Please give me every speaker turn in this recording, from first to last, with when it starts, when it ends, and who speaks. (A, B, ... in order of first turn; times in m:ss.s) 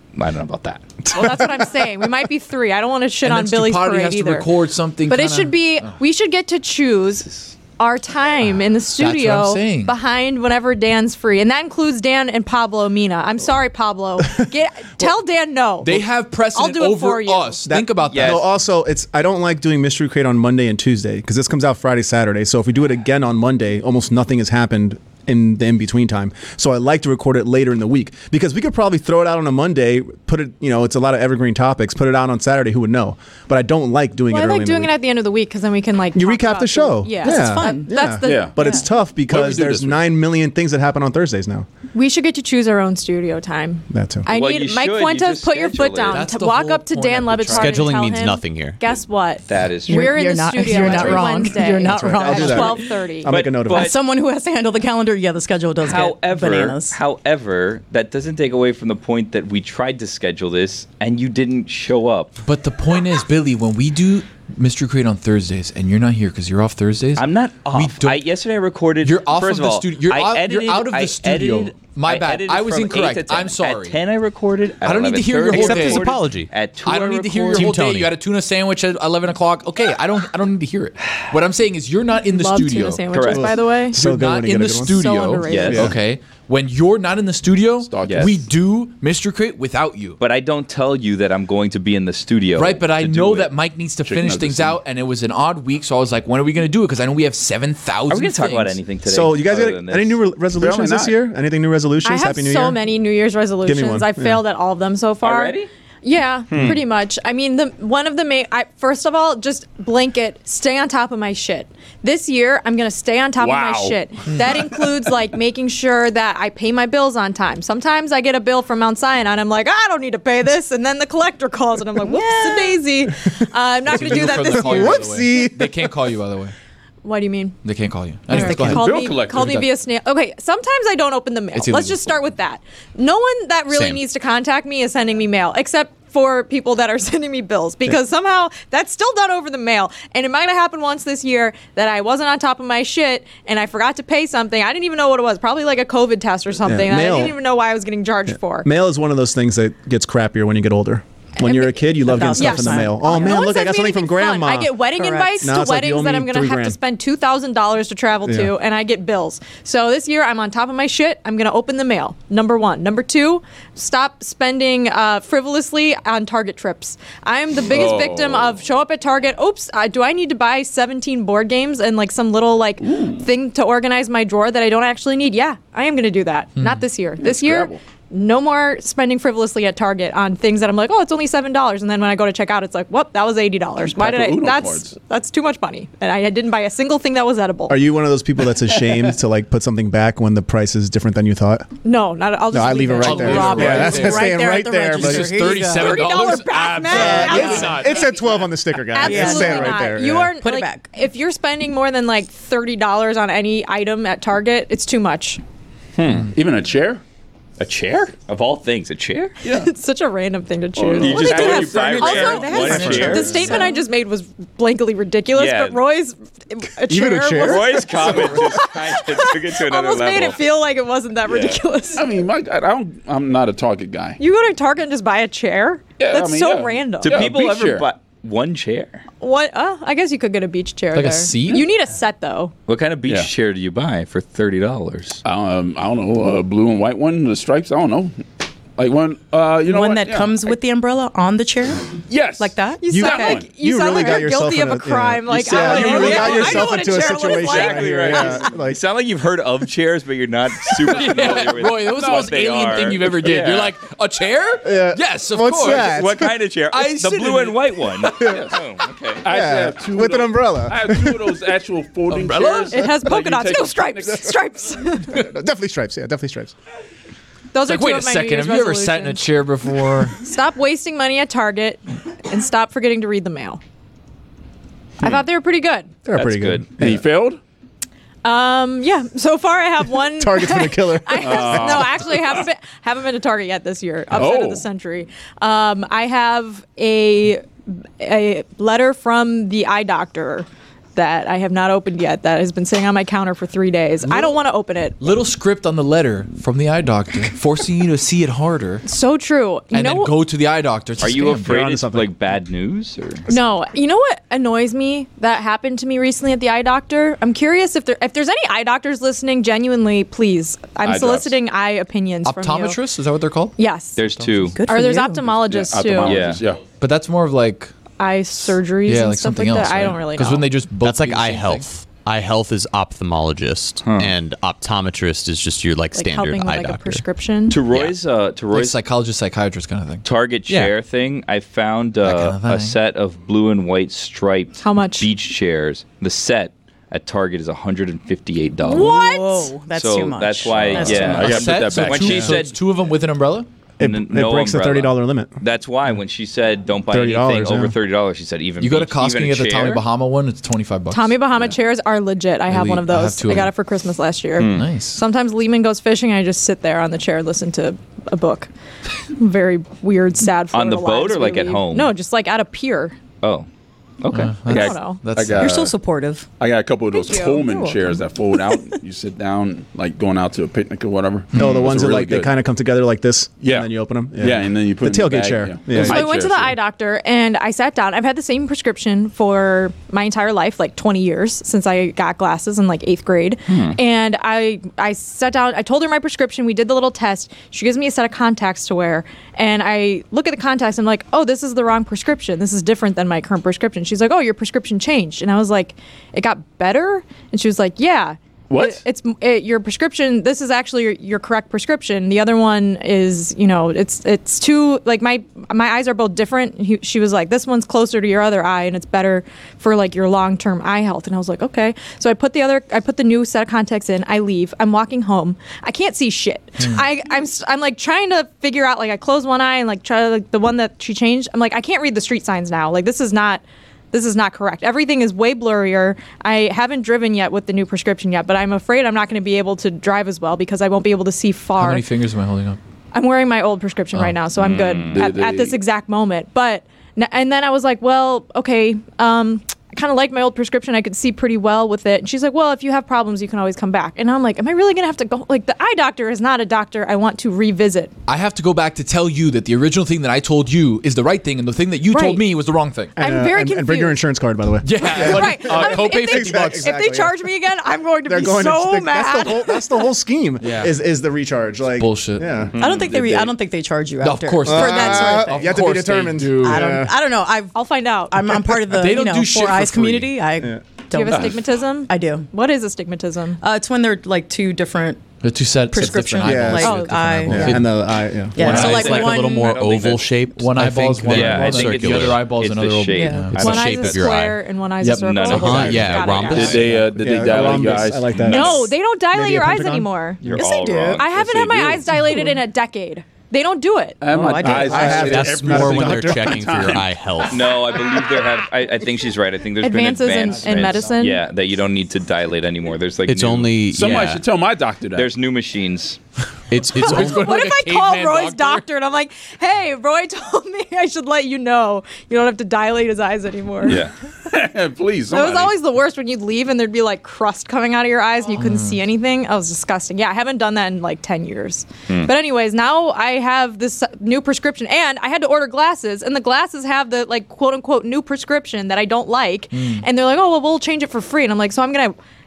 0:00.1-0:00.8 A
0:01.0-0:02.1 B
0:01.1-0:04.5 C
0:03.2-0:06.0 D
0:05.1-0:17.6 C
0:08.9-0:09.9 D
0:15.8-0:18.5 D
0:17.6-0:34.9 B
0:18.1-0:18.4 A
0:34.3-0:38.8 C
0:36.1-0:41.6 B
0:37.2-0:37.9 E
0:38.2-0:38.6 F
0:39.3-0:40.1 F
0:41.9-0:53.3 C
0:43.9-0:44.3 B
0:44.3-0:46.3 A
0:46.1-0:48.0 D
0:47.5-0:48.8 G
0:49.5-0:51.3 A
0:49.9-0:52.9 E
0:51.6-0:53.9 B
0:53.2-0:54.0 A
0:53.7-0:57.0 E
0:55.8-1:02.4 A
1:02.4-1:08.2 D
1:07.2-1:17.8 A
1:09.0-1:14.0 D
1:14.8-1:16.1 D
1:15.5-1:16.5 G
1:16.8-1:23.2 D
1:17.5-1:18.2 G
1:22.3-1:24.0 C
1:23.1-1:23.4 A
1:23.3-1:25.0 B
1:23.9-1:30.2 D
1:24.9-1:25.9 C
1:25.4-1:25.9 A
1:25.7-1:26.0 B
1:27.8-1:28.5 F
1:28.0-1:28.3 A
1:30.2-1:33.1 A
1:32.6-1:38.8 D
1:33.0-1:34.8 F
1:38.1-1:40.2 A
1:39.0-1:42.8 B
1:40.6-1:41.1 F
1:42.0-2:05.0 C
1:43.6-1:44.4 B
1:45.2-1:45.7 A
1:53.4-1:54.0 F
2:02.0-2:02.8 E
2:03.8-2:06.5 D
2:04.0-2:05.9 B
2:07.0-2:07.6 C
2:07.6-2:08.8 D
2:08.3-2:28.7 C
2:08.3-2:08.8 E
2:08.6-2:09.7 F
2:11.5-2:12.0 D
2:13.7-2:14.0 G
2:26.6-2:27.4 B
2:28.3-2:34.8 B
2:31.4-3:07.8 C
2:32.0-2:33.4 E
2:35.0-2:35.4 E
2:35.4-2:36.8 B
2:38.2-2:38.5 B
2:47.6-2:48.6 F
2:52.8-2:53.2 F
2:57.2-2:57.8 F
3:03.9-3:04.9 F
3:07.7-3:11.7 B
3:11.8-3:14.2 C
3:12.5-3:15.6 B
3:13.0-3:14.4 D
3:13.6-3:16.3 E
3:14.9-3:17.9 D
3:15.6-3:25.4 C
3:16.9-3:17.8 E
3:16.9-3:20.3 B
3:19.0-3:19.9 E
3:20.4-3:20.8 E
3:26.0-3:26.3 A
3:26.3-3:27.0 F
3:27.6-3:29.4 A
3:29.4-3:29.7 F
3:29.5-3:42.0 C
3:30.8-3:32.9 F
3:31.0-3:33.6 A
3:31.7-3:33.8 E
3:32.7-3:33.5 D
3:32.8-3:33.1 B
3:35.3-3:35.8 A
3:36.9-3:38.4 B
3:37.4-3:40.4 A
3:41.3-3:41.6 A
3:41.9-3:44.2 F
3:44.2-3:47.2 C
3:46.0-3:47.9 F
3:47.0-3:49.0 A
3:49.2-3:52.5 C
3:50.9-3:51.6 D
3:52.7-3:55.2 A
3:55.2-3:58.2 F
3:58.8-4:00.4 F
3:59.6-4:03.3 E
4:02.0-4:03.5 F
4:02.8-4:08.3 C
4:02.9-4:08.8 B
4:05.5-4:06.7 F
4:06.9-4:13.7 A
4:10.6-4:16.0 D
4:11.9-4:13.0 F
4:14.6-4:16.3 B
4:15.6-4:19.3 A
4:16.7-4:18.3 D
4:18.2-4:18.5 B
4:19.2-4:24.4 F
4:19.2-4:21.4 B
4:22.1-4:22.7 D
4:22.7-4:25.2 C
4:25.1-4:26.5 B
4:27.5-4:29.3 C
4:27.6-4:30.2 D
4:30.2-4:33.6 C
4:35.0-4:35.9 C
4:36.0-4:37.0 B
4:36.1-4:36.8 A
4:36.8-4:37.4 F
4:38.2-4:55.1 C
4:40.2-4:41.9 B
4:41.2-4:42.4 F
4:44.1-4:44.6 F
4:55.0-4:58.8 D
4:58.8-5:00.1 C
4:59.7-5:01.6 D
5:01.0-5:03.3 A
5:01.4-5:02.1 B
5:03.3-5:12.8 C
5:10.8-5:11.3 F
5:12.2-5:14.6 D
5:13.6-5:14.0 C
5:14.0-5:14.6 A
5:14.5-5:15.3 E
5:14.6-5:16.3 C
5:15.4-5:16.6 F
5:16.0-5:16.4 A
5:16.7-5:17.7 D
5:18.0-5:20.5 C
5:18.8-5:21.7 D
5:20.8-5:27.0 G
5:23.8-5:24.1 A
5:25.9-5:27.6 C
5:27.5-5:28.8 A
5:28.5-5:30.0 D
5:30.0-5:38.9 A
5:32.0-5:32.8 D
5:34.6-5:35.1 C
5:38.6-5:39.5 C
5:38.7-5:41.5 E
5:39.7-5:42.6 A
5:40.6-5:42.2 F
5:40.7-5:43.5 D
5:43.8-5:45.3 B
5:43.8-5:49.8 A
5:46.9-5:47.7 B
5:48.6-5:51.2 D
5:50.9-5:58.5 C
5:52.5-5:53.5 D
5:54.4-5:54.7 A
5:54.5-5:55.0 D
5:59.1-6:03.0 C
6:00.5-6:01.9 A
6:03.2-6:03.5 A
6:04.0-6:04.4 A
6:04.1-6:05.5 D
6:04.4-6:05.8 F
6:04.5-6:05.0 C
6:05.4-6:06.3 E
6:06.4-6:12.3 F
6:06.9-6:07.4 C
6:07.2-6:08.7 E
6:11.3-6:16.0 B
6:13.4-6:16.6 F
6:15.7-7:11.8 C
6:23.5-6:23.8 A
6:38.5-6:38.8 F
7:11.6-7:12.6 D
7:12.9-7:27.9 C
7:14.4-7:15.0 A
7:14.9-7:15.6 F
7:28.1-7:32.9 D
7:31.9-7:32.2 C
7:33.0-7:37.2 B
7:33.0-7:34.0 C
7:34.6-7:36.7 D
7:34.8-7:39.8 C
7:38.0-7:42.5 B
7:40.4-7:40.7 D
7:41.8-7:42.4 D
7:42.5-7:42.9 A
7:42.6-7:45.6 E
7:42.8-7:43.3 F
7:44.0-7:46.7 D
7:44.4-7:46.9 B
7:46.4-7:47.6 E
7:47.5-7:48.2 C
7:48.1-7:52.3 E
7:48.7-7:50.1 D
7:50.9-7:53.4 C
7:53.4-7:55.0 E
7:55.2-7:57.7 D
7:55.7-7:57.6 E
7:56.2-7:56.7 B
7:56.6-7:57.5 C
7:57.2-7:58.7 B
7:58.4-7:59.6 E
7:58.4-8:02.3 G
7:58.4-7:59.0 D
7:58.6-8:00.0 A
8:00.3-8:04.2 D
8:01.0-8:04.0 A
8:02.9-8:03.3 E
8:03.3-8:04.4 G
8:03.4-8:06.7 C
8:04.8-8:06.3 D
8:04.9-8:06.6 A
8:05.2-8:06.8 G
8:06.3-8:08.7 F
8:06.9-8:09.9 B
8:08.2-8:10.2 C
8:10.2-8:11.1 A
8:10.3-8:11.0 E
8:10.9-8:14.0 C
8:11.0-8:12.1 F
8:12.0-8:12.4 E
8:14.0-8:17.2 F
8:14.1-8:15.1 E
8:14.4-8:16.4 B
8:14.5-8:17.6 G
8:17.3-8:23.6 A
8:19.6-8:21.2 C
8:23.1-8:24.2 G
8:23.7-8:25.1 F
8:25.0-8:26.0 A
8:26.5-8:27.2 G
8:26.6-8:28.6 D
8:26.8-8:33.8 C
8:33.6-8:33.9 A
8:33.7-8:35.6 F
8:35.1-8:51.9 C
8:38.4-8:38.8 D
8:49.5-8:49.8 D